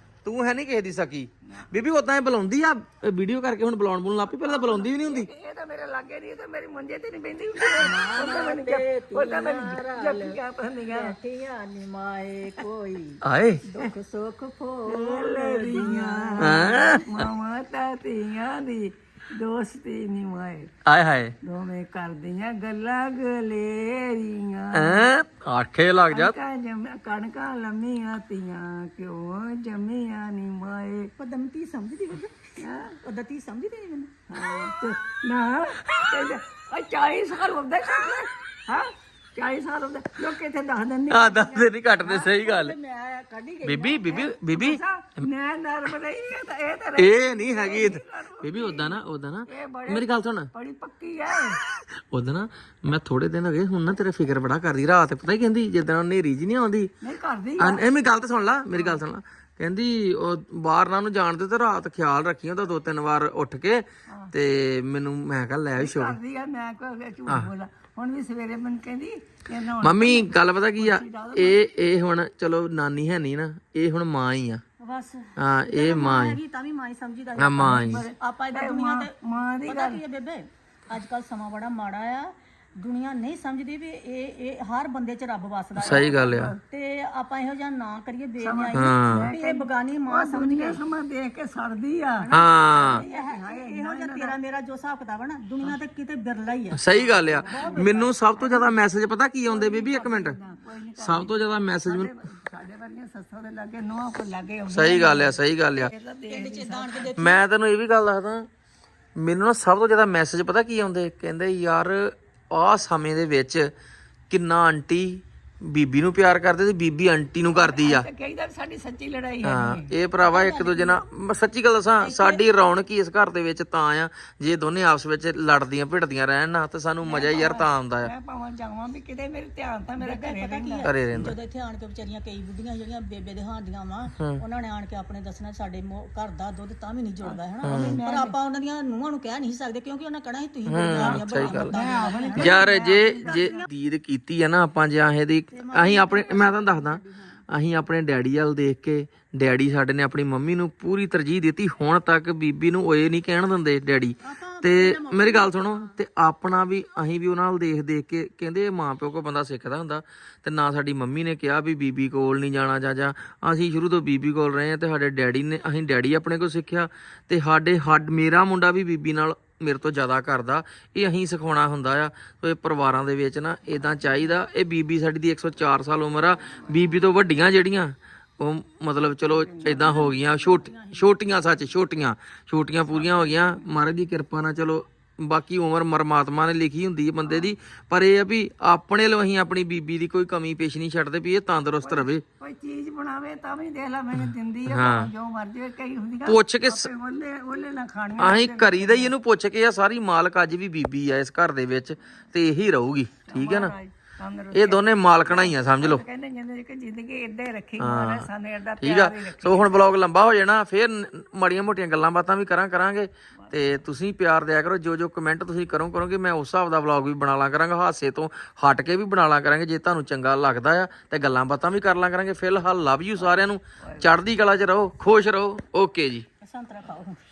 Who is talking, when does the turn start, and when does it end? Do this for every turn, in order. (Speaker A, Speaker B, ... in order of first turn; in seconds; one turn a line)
Speaker A: 0.2-5.3
Speaker B: 1.4-1.7
Speaker B: 4.4-11.2
Speaker C: 7.8-16.9
Speaker A: 13.2-13.6
Speaker B: 14.9-20.7
Speaker A: 16.4-17.1
Speaker A: 20.8-21.4
Speaker B: 21.4-25.1
Speaker A: 24.7-26.4
Speaker B: 26.1-31.1
Speaker C: 31.2-32.5
Speaker B: 32.6-33.0
Speaker C: 33.0-34.2
Speaker B: 34.3-41.7
Speaker A: 41.1-42.7
Speaker C: 42.0-44.3
Speaker A: 43.6-45.2
Speaker B: 44.5-51.6
Speaker A: 47.0-50.5
Speaker A: 52.1-56.9
Speaker B: 57.0-57.9
Speaker A: 57.6-66.2
Speaker B: 58.7-59.0
Speaker B: 64.1-64.3
Speaker B: 65.8-71.6
Speaker A: 69.8-74.6
Speaker C: 74.8-79.1
Speaker A: 75.4-76.4
Speaker A: 77.3-78.0
Speaker B: 77.6-80.0
Speaker C: 79.6-90.8
Speaker A: 85.8-86.5
Speaker B: 85.8-86.6
Speaker B: 88.4-94.3
Speaker A: 88.7-89.3
Speaker C: 92.2-98.1
Speaker A: 92.3-93.0
Speaker A: 96.7-100.3
Speaker B: 97.3-98.6
Speaker B: 99.5-107.1
Speaker A: 101.0-102.1
Speaker A: 104.7-105.9
Speaker C: 106.3-107.4
Speaker A: 107.2-108.5
Speaker A: 109.2-113.7
Speaker A: 114.3-118.1
Speaker B: 117.5-119.9
Speaker A: 119.4-128.1
Speaker C: 120.2-121.0
Speaker C: 122.0-122.5
Speaker B: 127.0-130.9
Speaker C: 130.0-142.7
Speaker A: 130.8-131.3
Speaker B: 137.2-138.3
Speaker A: 137.6-138.0
Speaker A: 140.7-141.7
Speaker B: 141.0-143.7
Speaker A: 142.4-192.2
Speaker C: 143.2-143.6
Speaker C: 145.5-147.4
Speaker C: 154.2-155.9
Speaker B: 179.2-179.9
Speaker C: 179.6-181.1
Speaker B: 191.8-199.1
Speaker A: 194.7-195.1
Speaker A: 196.2-196.9
Speaker A: 198.2-203.7
Speaker B: 203.2-209.8
Speaker A: 204.5-206.0
Speaker A: 207.8-226.2
Speaker B: 213.4-213.7
Speaker B: 223.3-224.1
Speaker C: 226.4-227.2